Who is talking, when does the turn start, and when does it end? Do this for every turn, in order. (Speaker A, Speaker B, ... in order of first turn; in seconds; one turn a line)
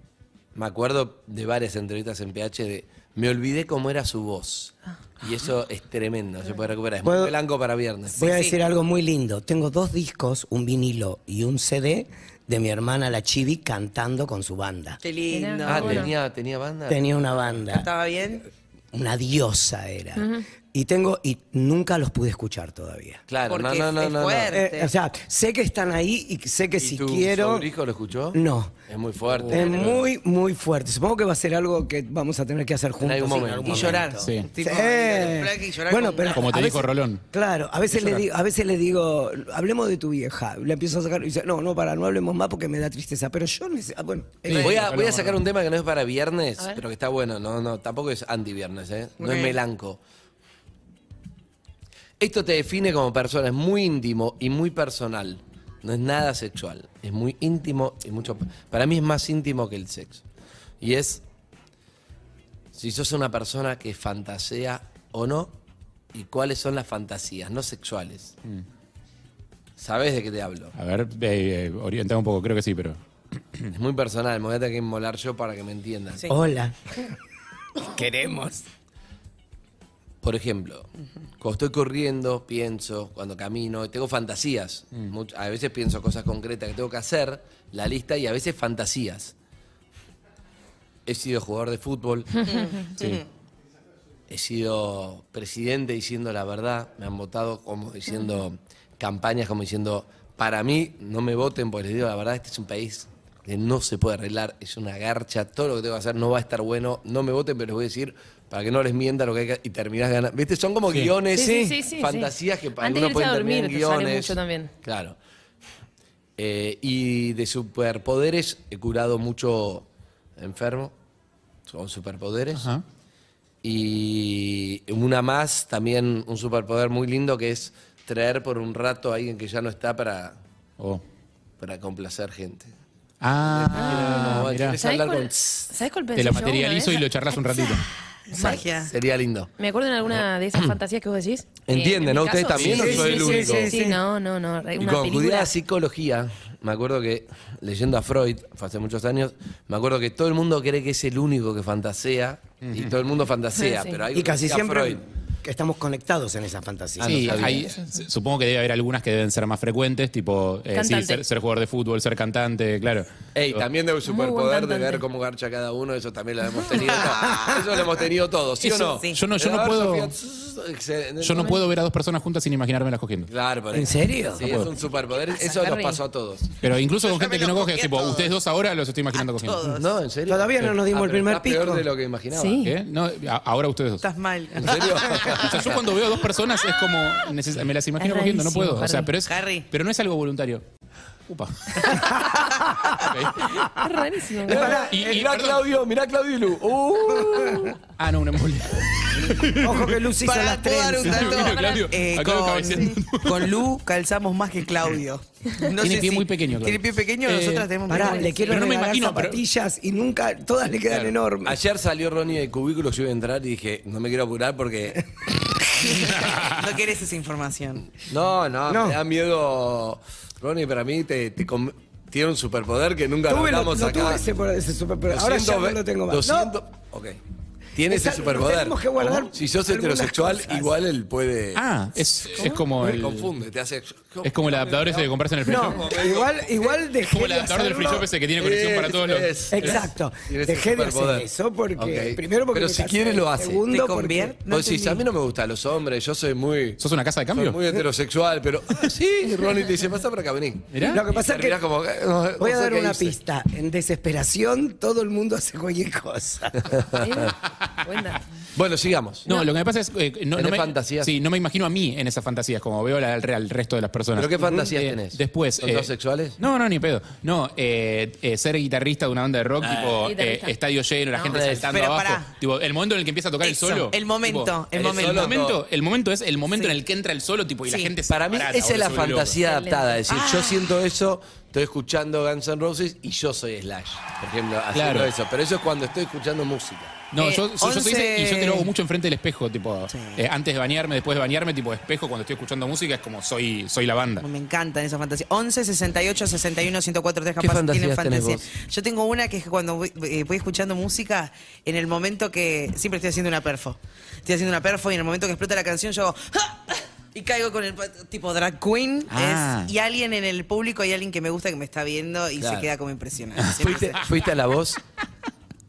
Speaker A: 0.5-8.2
Speaker B: 7.0-7.3
Speaker B: 8.1-15.0
Speaker C: 8.2-8.6
Speaker C: 15.0-16.1
Speaker D: 15.3-16.1
Speaker A: 15.7-17.0
Speaker B: 16.9-17.9
Speaker C: 17.7-18.5
Speaker B: 18.9-23.2
Speaker D: 20.2-20.4
Speaker A: 23.3-24.6
Speaker C: 23.5-24.9
Speaker B: 24.5-27.7
Speaker A: 26.8-30.0
Speaker B: 28.3-28.7
Speaker B: 29.5-44.8
Speaker A: 33.0-34.1
Speaker C: 33.6-36.5
Speaker E: 34.2-34.5
Speaker E: 36.3-37.2
Speaker E: 37.9-38.2
Speaker E: 44.4-45.4
Speaker A: 44.5-50.0
Speaker A: 52.2-60.2
Speaker A: 60.8-61.2
Speaker A: 62.7-65.5
Speaker A: 66.1-68.3
Speaker A: 69.8-70.7
Speaker E: 70.7-73.0
Speaker A: 73.7-76.3
Speaker B: 76.3-77.0
Speaker B: 77.8-78.6
Speaker A: 80.2-80.9
Speaker A: 81.4-89.3
Speaker A: 91.0-92.5
Speaker C: 92.4-93.2
Speaker A: 94.3-115.2
Speaker D: 111.3-114.7
Speaker A: 116.4-119.8
Speaker A: 120.4-120.9
Speaker A: 121.7-122.7
Speaker E: 122.5-122.8
Speaker A: 123.6-130.4
Speaker A: 131.6-132.7
Speaker E: 133.2-134.8
Speaker A: 133.5-135.7
Speaker D: 133.8-137.1
Speaker E: 136.1-137.8
Speaker C: 138.3-138.9
Speaker A: 138.4-139.5
Speaker D: 139.6-145.5
Speaker A: 141.7-143.7
Speaker E: 142.6-142.9
Speaker B: 142.6-144.0
Speaker A: 144.8-155.0
Speaker E: 152.6-153.0
Speaker D: 153.6-154.0
Speaker B: 154.1-157.6
Speaker A: 157.0-157.7
Speaker E: 157.0-163.6
Speaker D: 160.7-161.2
Speaker A: 163.3-171.6
Speaker D: 164.1-165.0
Speaker C: 166.7-167.6
Speaker E: 168.6-170.1
Speaker C: 168.8-169.2
Speaker E: 171.2-173.3
Speaker A: 173.3-176.5
Speaker B: 173.7-174.6
Speaker E: 174.4-174.7
Speaker E: 176.6-179.7
Speaker C: 177.0-178.3
Speaker C: 179.1-179.8
Speaker A: 179.7-182.6
Speaker B: 180.3-181.8
Speaker D: 182.3-182.7
Speaker E: 182.6-184.0
Speaker C: 184.0-185.5
Speaker A: 184.6-185.8
Speaker E: 185.3-190.6
Speaker D: 188.0-189.1
Speaker C: 189.3-189.7
Speaker E: 191.3-192.2
Speaker E: 193.0-193.5
Speaker D: 193.7-194.8
Speaker B: 194.5-195.1
Speaker A: 194.5-197.7
Speaker E: 194.7-195.6
Speaker E: 198.0-199.8
Speaker B: 199.5-201.5
Speaker C: 200.2-208.8
Speaker E: 201.0-203.6
Speaker E: 205.8-207.7
Speaker B: 207.9-211.6
Speaker E: 208.5-209.4
Speaker A: 210.9-215.0
Speaker C: 215.9-217.9
Speaker E: 216.2-216.6
Speaker A: 218.0-224.2
Speaker B: 218.7-219.0
Speaker B: 223.3-226.5
Speaker A: 225.1-227.2
Speaker A: 227.7-231.6
Speaker B: 227.9-230.7
Speaker E: 231.5-233.3
Speaker A: 232.2-236.7
Speaker E: 234.2-235.9
Speaker B: 235.4-238.1
Speaker E: 237.1-239.8
Speaker A: 238.4-243.6
Speaker B: 239.5-244.3
Speaker C: 243.7-245.0
Speaker A: 244.5-246.8
Speaker E: 246.8-247.6
Speaker A: 247.3-253.2
Speaker E: 250.7-251.0
Speaker B: 250.9-251.6
Speaker B: 252.4-256.7
Speaker A: 256.7-257.0
Speaker D: 257.0-258.2
Speaker A: 258.5-259.3
Speaker E: 259.2-279.4
Speaker A: 260.3-261.1
Speaker A: 264.1-266.4
Speaker A: 269.6-270.0
Speaker D: 270.0-270.5
Speaker A: 271.3-271.7
Speaker C: 271.7-272.3
Speaker C: 273.4-275.5
Speaker A: 274.7-275.6
Speaker C: 277.7-277.9
Speaker A: 278.1-287.0
Speaker D: 279.4-280.0
Speaker C: 280.1-280.7
Speaker E: 284.7-285.1
Speaker E: 287.1-294.2
Speaker C: 287.2-288.7
Speaker C: 289.9-290.2
Speaker C: 294.2-314.1
Speaker A: 297.4-298.5
Speaker E: 309.1-309.7
Speaker A: 312.4-312.7
Speaker A: 313.6-314.8